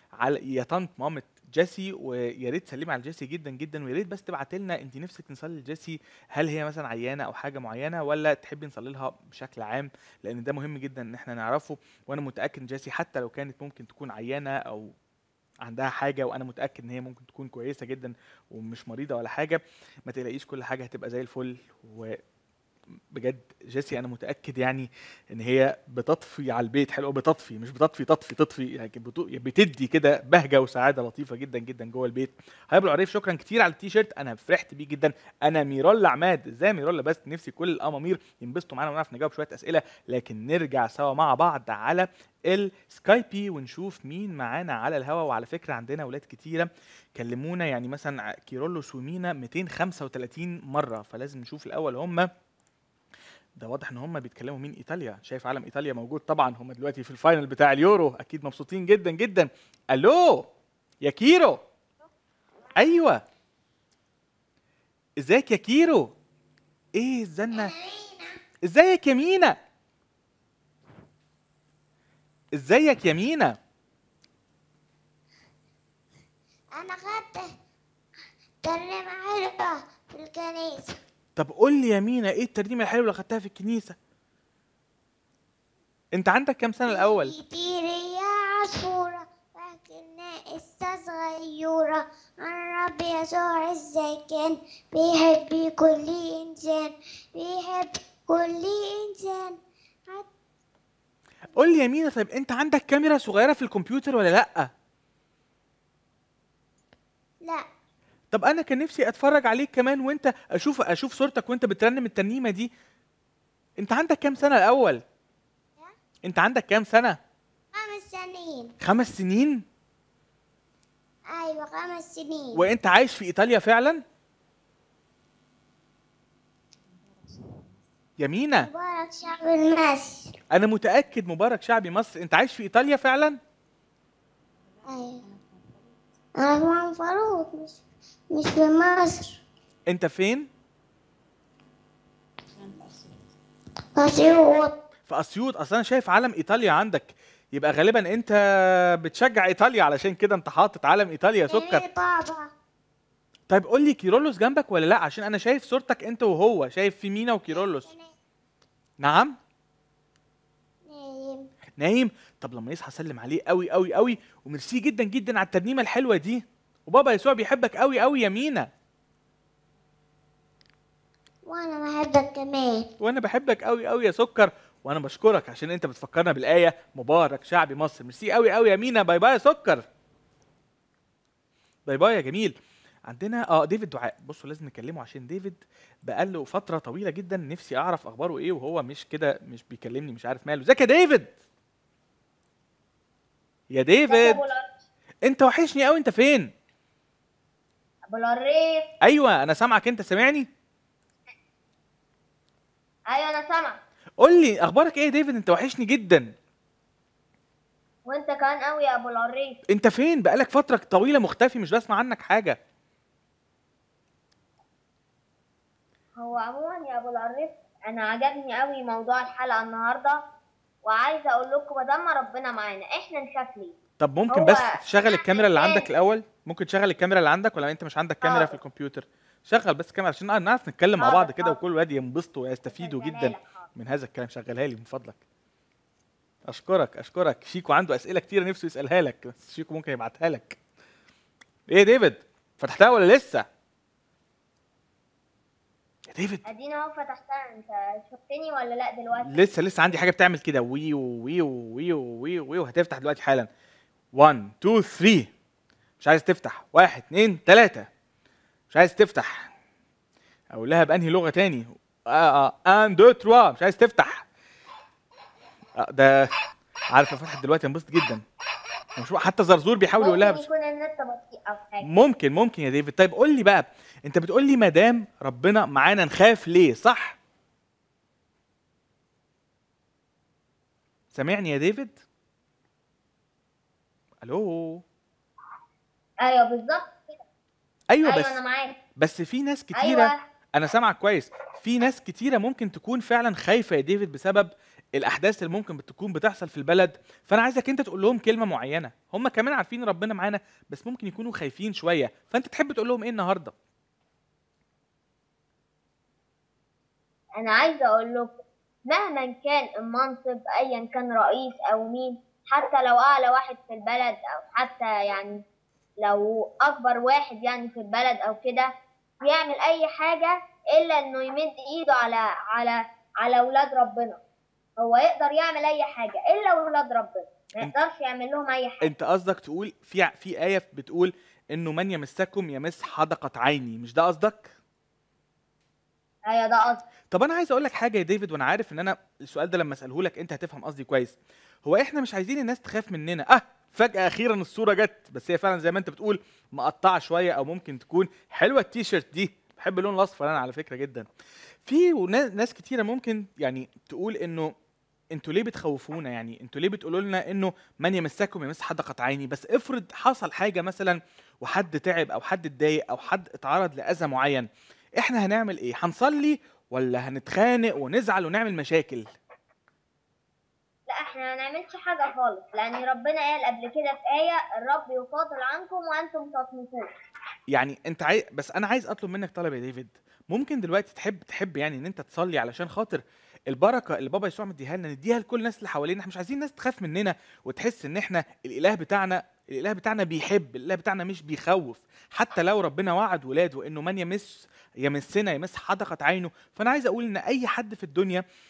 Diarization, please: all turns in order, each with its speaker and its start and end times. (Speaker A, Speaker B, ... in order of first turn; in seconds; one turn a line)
Speaker A: 0.2-14.9
Speaker A: 15.6-22.2
Speaker A: 23.1-52.3
Speaker A: 53.6-60.5
Speaker A: 61.0-61.6
Speaker A: 62.8-63.2
Speaker A: 65.2-66.1
Speaker A: 67.0-67.7
Speaker B: 67.5-68.4
Speaker A: 68.7-69.6
Speaker A: 72.6-73.6
Speaker B: 76.8-77.5
Speaker B: 78.6-81.0
Speaker A: 81.4-84.0
Speaker A: 86.2-87.3
Speaker B: 86.9-99.6
Speaker A: 101.6-104.7
Speaker A: 108.3-112.7
Speaker A: 113.8-115.0
Speaker A: 116.3-117.2
Speaker B: 117.7-118.7
Speaker A: 118.8-119.7
Speaker B: 121.3-122.7
Speaker A: 122.5-124.0
Speaker A: 128.2-128.7
Speaker B: 128.6-130.3
Speaker A: 130.5-133.4
Speaker B: 134.9-135.3
Speaker B: 136.4-137.8
Speaker B: 138.3-139.4
Speaker A: 139.9-140.5
Speaker B: 144.0-144.8
Speaker A: 145.1-148.4
Speaker A: 149.0-151.8
Speaker B: 151.5-152.5
Speaker A: 153.5-157.9
Speaker B: 157.5-158.1
Speaker A: 159.0-159.4
Speaker B: 160.9-161.4
Speaker A: 161.8-168.7
Speaker B: 171.5-172.9
Speaker A: 173.0-179.8
Speaker A: 181.9-182.5
Speaker A: 183.1-191.3
Speaker A: 193.7-194.4
Speaker C: 194.1-194.8
Speaker A: 195.3-196.5
Speaker C: 198.1-198.8
Speaker A: 199.0-200.5
Speaker C: 203.1-203.8
Speaker A: 204.2-206.3
Speaker C: 208.1-209.6
Speaker A: 209.7-212.6
Speaker C: 216.2-220.2
Speaker C: 220.8-223.8
Speaker A: 224.0-235.2
Speaker C: 224.3-225.8
Speaker C: 228.2-228.5
Speaker C: 231.0-231.6
Speaker C: 232.7-233.7
Speaker A: 236.5-240.6
Speaker A: 241.7-243.4
Speaker A: 246.1-246.4
Speaker C: 246.5-249.7
Speaker A: 249.2-253.5
Speaker A: 254.2-255.3
Speaker A: 256.0-257.9
Speaker A: 258.7-259.5
Speaker A: 260.5-264.2
Speaker A: 265.8-266.3
Speaker A: 266.9-268.2
Speaker A: 269.0-270.4
Speaker C: 270.0-271.9
Speaker A: 271.8-277.2
Speaker A: 281.1-282.0
Speaker A: 284.2-284.8
Speaker C: 286.2-287.1
Speaker A: 287.9-288.4
Speaker C: 288.0-288.8
Speaker A: 289.0-303.5
Speaker C: 289.7-290.2
Speaker C: 307.4-315.4
Speaker C: 316.0-318.7
Speaker C: 319.2-324.2
Speaker C: 324.8-328.9
Speaker A: 328.8-334.5
Speaker C: 336.3-336.9
Speaker A: 337.1-341.1
Speaker A: 341.7-351.1
Speaker A: 351.7-354.5
Speaker A: 355.1-364.5
Speaker A: 365.0-369.1
Speaker C: 370.9-376.9
Speaker A: 377.5-398.2